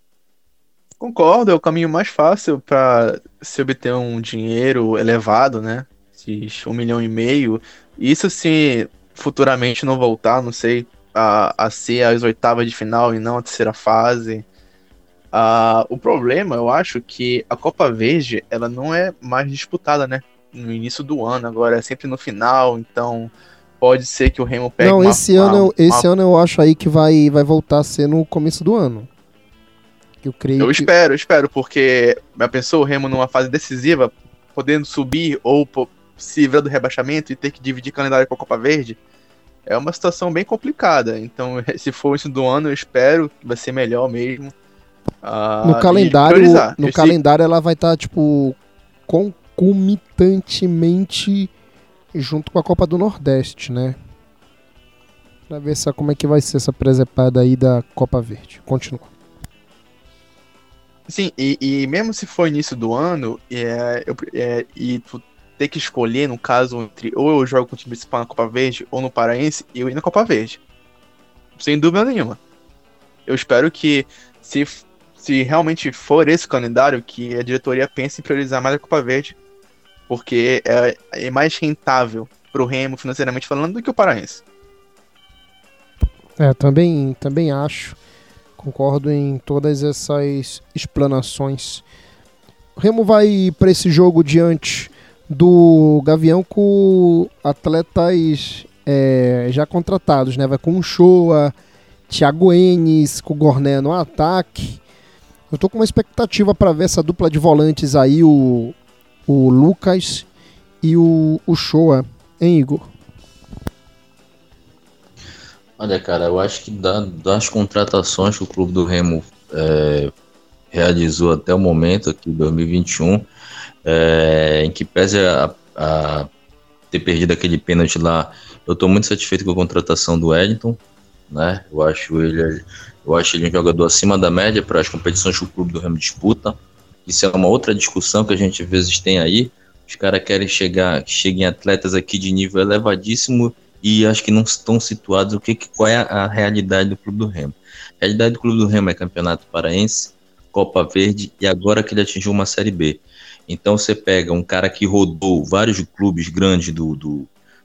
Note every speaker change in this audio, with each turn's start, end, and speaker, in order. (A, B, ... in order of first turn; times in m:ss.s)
0:01.0-0:14.5 A
0:15.3-0:26.1 A
0:24.8-0:29.1 B
0:30.2-0:30.9 B
0:30.6-0:39.0 A
0:39.6-0:44.5 A
0:45.2-0:47.2 A
0:45.6-0:51.5 B
0:52.1-0:54.0 B
0:55.5-0:59.1 B
1:01.1-1:10.6 A
1:11.6-1:12.4 A
1:13.2-1:19.4 A
1:20.1-1:24.4 A
1:26.4-1:28.0 B
1:28.6-1:31.8 B
1:32.8-1:41.6 B
1:42.1-1:44.8 B
1:45.5-1:48.8 B
1:49.3-1:50.3 B
1:50.8-1:52.9 B
1:55.8-2:00.1 C
2:00.7-2:03.3 C
2:03.8-2:06.3 C
2:06.9-2:37.3 C